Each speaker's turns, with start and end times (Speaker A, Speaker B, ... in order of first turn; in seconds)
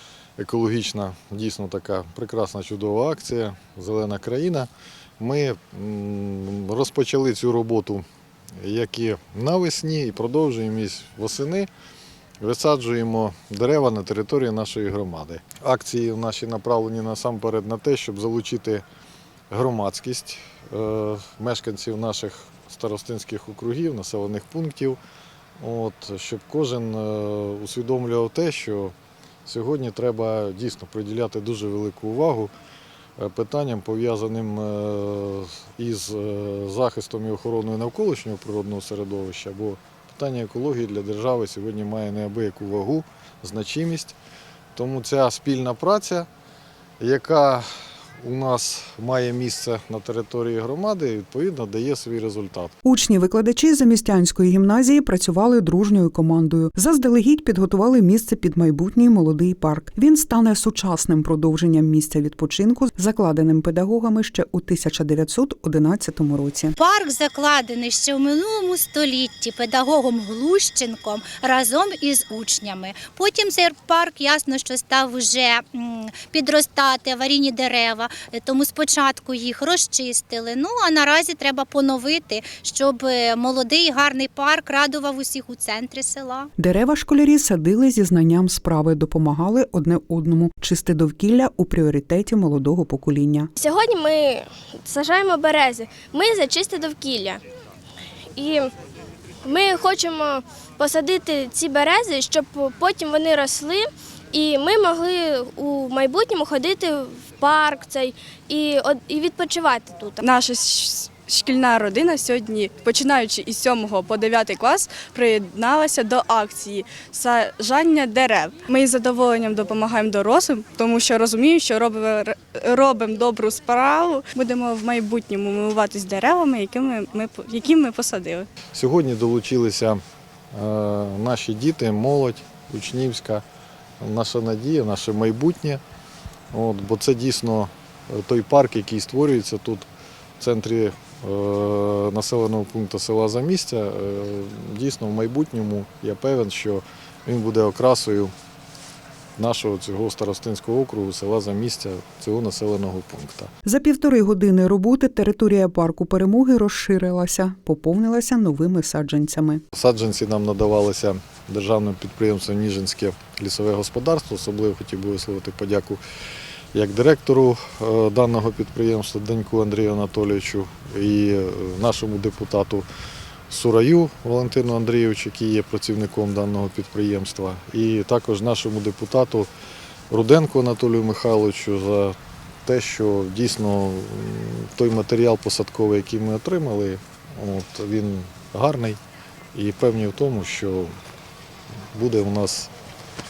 Speaker A: 0.4-8.1, 8.6-11.7, 12.4-18.8, 19.5-25.0, 25.6-28.9, 29.4-32.5, 33.2-44.2, 44.8-46.3, 47.0-47.7, 48.2-52.7, 128.7-130.0, 130.5-133.4, 134.0-135.8, 136.5-139.9, 140.4-148.3, 149.4-153.5, 159.7-166.0, 166.7-172.8, 173.5-179.5, 180.1-189.0, 189.5-190.9, 191.9-192.7
Speaker B: 52.8-66.7, 86.6-93.5, 153.7-159.6
Speaker C: 66.8-86.5
Speaker D: 93.6-97.4, 98.3-98.7, 99.4-110.2
Speaker E: 110.2-128.5